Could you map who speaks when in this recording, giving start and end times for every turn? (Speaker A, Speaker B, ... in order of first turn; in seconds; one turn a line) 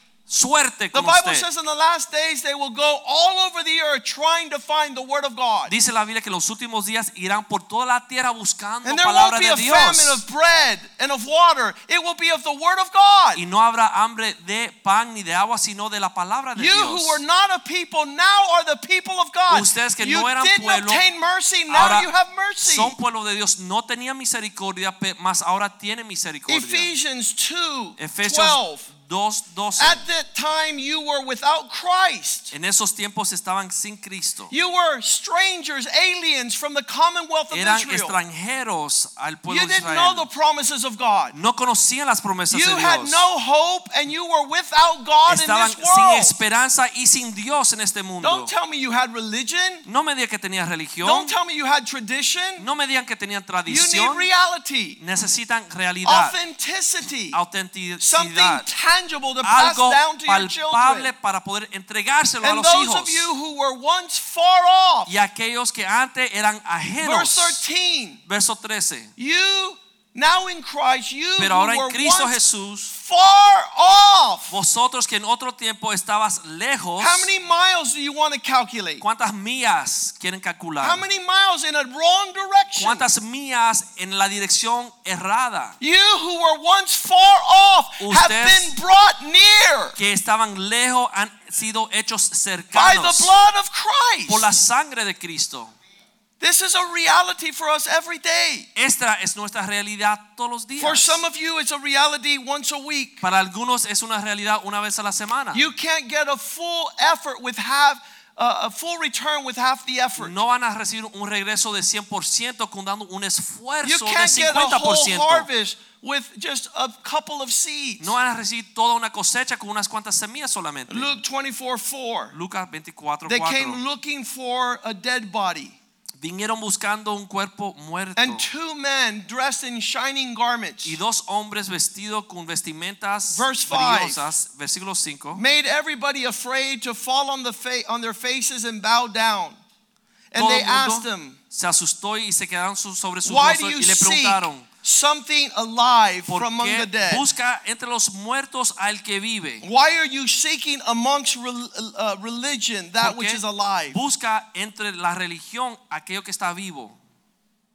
Speaker A: 0.3-1.4
Speaker B: 0.9-5.7
Speaker A: 5.7-10.2
Speaker B: 8.8-13.4
Speaker A: 13.3-17.2
Speaker B: 16.6-23.0
Speaker A: 19.5-21.0
Speaker A: 21.7-22.1
Speaker A: 22.6-26.9
Speaker B: 26.5-28.9
Speaker A: 28.0-30.0
Speaker B: 29.8-32.5
Speaker A: 32.5-34.5
Speaker B: 34.5-38.2
Speaker A: 37.5-40.3
Speaker B: 39.5-41.4
Speaker A: 41.3-43.2
Speaker B: 42.5-46.4
Speaker A: 45.3-48.5
Speaker B: 48.2-49.9
Speaker A: 49.9-51.3
Speaker B: 51.0-52.6
Speaker A: 52.6-54.3
Speaker B: 53.7-55.0
Speaker A: 55.0-56.4
Speaker B: 56.0-57.4
Speaker A: 57.3-58.7
Speaker B: 58.0-61.1
Speaker A: 59.4-63.3
Speaker B: 62.4-65.1
Speaker A: 65.1-67.6
Speaker B: 67.0-68.2
Speaker A: 68.3-69.1
Speaker B: 69.2-72.4
Speaker A: 71.4-72.9
Speaker B: 72.9-74.5
Speaker A: 74.5-77.3
Speaker B: 77.0-79.0
Speaker A: 79.0-81.0
Speaker B: 80.8-83.0
Speaker A: 82.8-85.8
Speaker B: 85.8-90.0
Speaker A: 88.0-88.7
Speaker A: 90.0-93.3
Speaker B: 92.7-94.5
Speaker A: 94.3-95.7
Speaker B: 96.4-98.7
Speaker A: 98.8-101.2
Speaker B: 100.8-103.2
Speaker A: 103.2-105.7
Speaker B: 105.5-110.3
Speaker A: 110.2-115.5
Speaker B: 113.8-118.1
Speaker A: 118.0-121.2
Speaker B: 120.9-122.3
Speaker A: 122.3-123.8
Speaker B: 123.3-125.8
Speaker A: 126.2-128.5
Speaker B: 128.2-131.0
Speaker A: 130.8-135.4
Speaker B: 133.3-134.2
Speaker B: 135.3-139.6
Speaker B: 140.3-141.4
Speaker A: 140.4-144.7
Speaker B: 143.2-147.3
Speaker A: 146.3-149.7
Speaker B: 149.6-154.0
Speaker A: 153.0-157.0